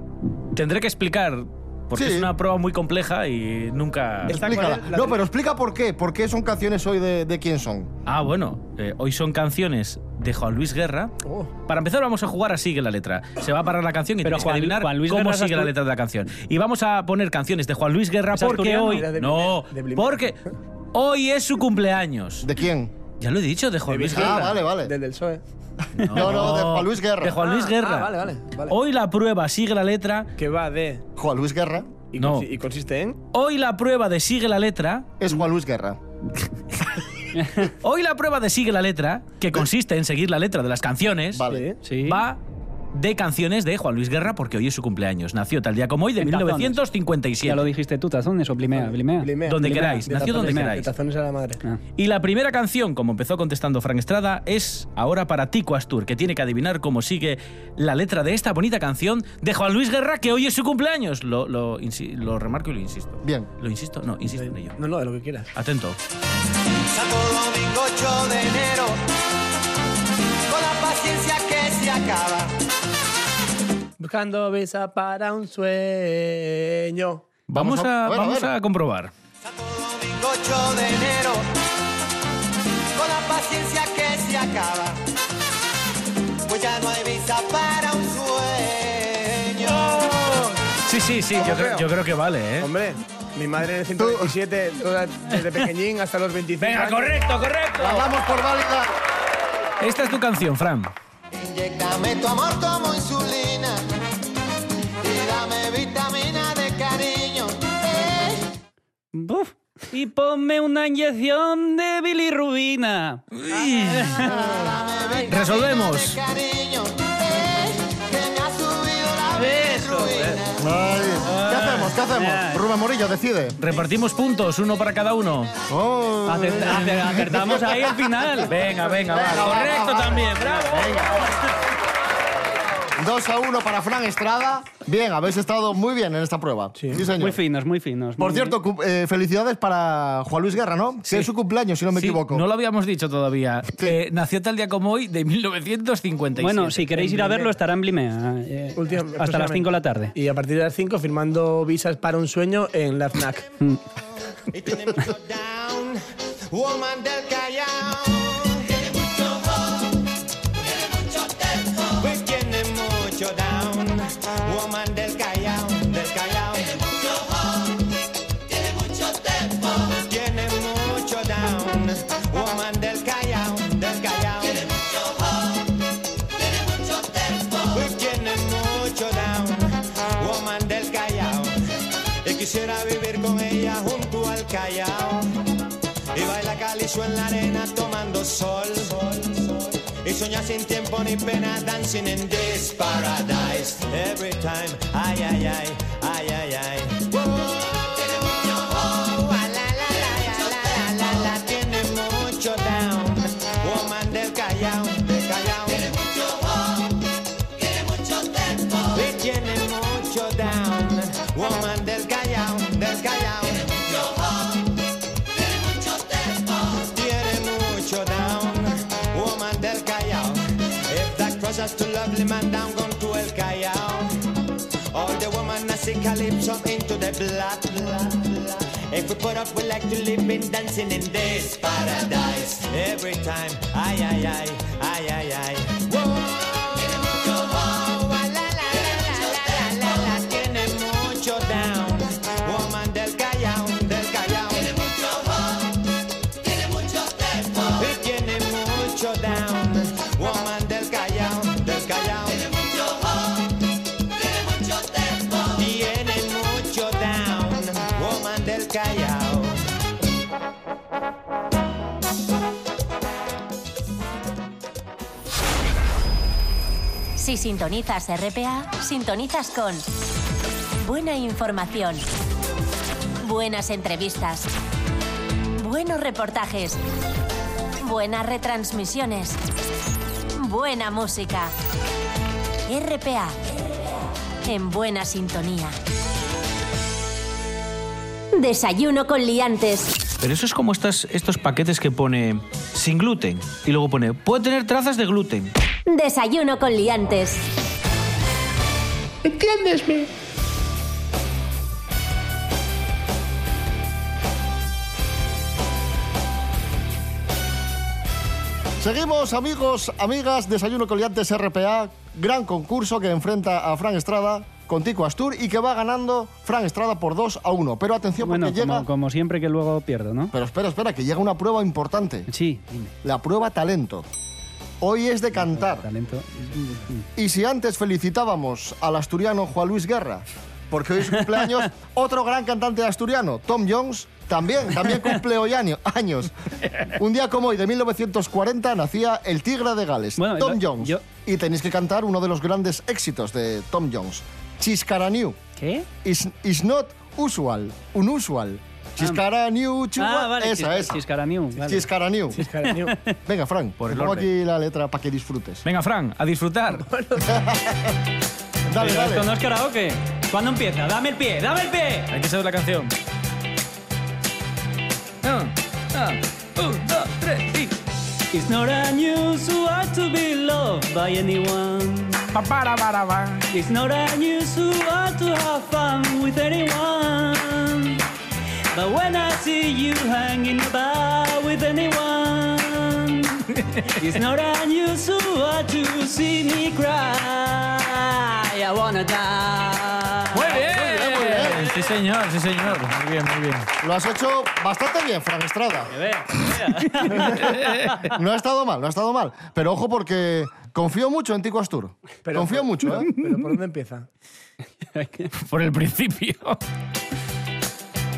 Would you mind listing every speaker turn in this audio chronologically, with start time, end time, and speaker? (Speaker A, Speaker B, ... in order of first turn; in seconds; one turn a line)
Speaker A: 0.5-4.4
Speaker B: 1.9-2.3
Speaker C: 4.3-5.2
Speaker B: 4.3-7.9
Speaker A: 8.1-11.2
Speaker C: 11.2-11.5
Speaker A: 11.7-20.4
Speaker D: 14.2-15.7
Speaker D: 18.3-19.1
Speaker C: 18.8-20.3
Speaker A: 20.9-22.5
Speaker B: 22.4-22.9
Speaker A: 23.2-24.6
Speaker C: 23.9-25.4
Speaker B: 24.1-24.9
Speaker A: 26.0-30.3
Speaker B: 26.1-27.4
Speaker C: 27.4-28.8
Speaker C: 30.4-31.0
Speaker B: 31.2-31.9
Speaker C: 32.1-33.2
Speaker A: 32.2-32.5
Speaker A: 33.3-35.1
Speaker B: 35.2-36.0
Speaker D: 37.4-37.7
Speaker A: 37.7-41.5
Speaker B: 41.4-41.6
Speaker C: 41.5-41.8
Speaker D: 41.8-42.2
Speaker A: 42.0-42.4
Speaker A: 42.9-47.7
Speaker D: 46.2-46.8
Speaker D: 47.4-50.8
Speaker C: 48.6-51.6
Speaker A: 49.5-50.9
Speaker A: 52.0-64.8
Speaker B: 63.2-63.5
Speaker C: 64.3-65.5
Speaker A: 65.5-66.0
Speaker E: 66.9-69.0
Speaker E: 70.5-72.5
Speaker C: 74.0-77.2
Speaker A: 77.5-79.1
Speaker B: 77.5-78.5
Speaker E: 79.4-81.5
Speaker E: 82.9-85.0
Speaker E: 86.5-90.0
Speaker A: 89.9-92.7
Speaker C: 91.4-91.9
Speaker C: 92.6-97.2
Speaker B: 94.0-94.3
Speaker A: 96.6-98.1
Speaker B: 97.8-98.9
Speaker A: 99.8-100.9
Speaker E: 101.3-103.8
Speaker E: 105.0-108.4
Speaker D: 109.1-113.2
Speaker A: 113.3-114.4
Speaker D: 113.8-114.3
Speaker E: 114.2-120.6
Speaker A: 115.3-116.2
Speaker D: 119.4-120.1
Speaker A: 119.5-120.4
Speaker B: 120.6-123.6
Speaker A: 121.2-122.0
Speaker D: 122.1-122.6
Speaker A: 123.6-125.5
Speaker B: 125.7-128.1
Speaker D: 126.3-128.5
Speaker A: 128.5-131.2
Speaker B: 129.1-131.3
Speaker B: 133.0-137.4
Speaker D: 137.1-138.6
Speaker B: 138.2-142.4
Speaker A: 141.9-147.0
Speaker D: 146.4-150.1
Speaker C: 147.0-147.5
Speaker C: 148.8-153.5
Speaker E: 154.5-159.8
Speaker E: 160.7-167.2
Speaker E: 168.8-175.4
Speaker E: 176.9-181.6
Speaker E: 182.2-185.4
Speaker E: 186.1-206.4
Speaker E: 208.7-214.4
Speaker E: 216.6-224.3
Speaker E: 224.9-245.2
Speaker E: 247.4-252.8
Speaker E: 255.3-259.7
Speaker F: 267.2-269.9
Speaker F: 270.8-272.1
Speaker F: 273.2-274.5
Speaker F: 275.6-276.8
Speaker F: 277.8-279.4
Speaker F: 280.4-281.5
Speaker F: 282.7-283.4
Speaker F: 284.5-285.8
Speaker F: 288.4-289.9
Speaker A: 290.2-295.5
Speaker F: 295.9-297.4
Speaker B: 308.8-318.9
Speaker D: 318.2-320.3
Speaker B: 320.3-322.3
Speaker D: 322.3-322.9
Speaker B: 323.0-324.1
Speaker B: 324.8-325.9
Speaker D: 325.4-327.1
Speaker B: 327.1-336.3
Speaker B: 336.9-345.4
Speaker D: 340.2-341.0
Speaker D: 345.6-345.9
Speaker B: 346.0-351.0
Speaker D: 350.0-351.9
Speaker B: 351.6-352.4
Speaker C: 352.3-352.9
Speaker D: 352.5-353.1
Speaker B: 353.3-355.6
Speaker A: 353.8-354.3
Speaker A: 355.6-356.9
Speaker C: 356.8-357.3
Speaker B: 357.3-357.9
Speaker B: 358.7-359.3
Speaker D: 358.8-362.1
Speaker A: 362.1-362.9
Speaker A: 365.2-367.8
Speaker D: 368.3-372.3
Speaker A: 372.3-373.5
Speaker D: 373.5-378.0
Speaker D: 378.7-391.8
Speaker A: 383.6-383.9
Speaker A: 390.3-393.7
Speaker B: 391.0-391.6
Speaker B: 393.8-395.9
Speaker D: 395.9-397.4
Speaker A: 397.1-398.1
Speaker B: 398.0-403.1
Speaker C: 402.2-404.1
Speaker D: 404.9-405.3
Speaker A: 405.4-406.6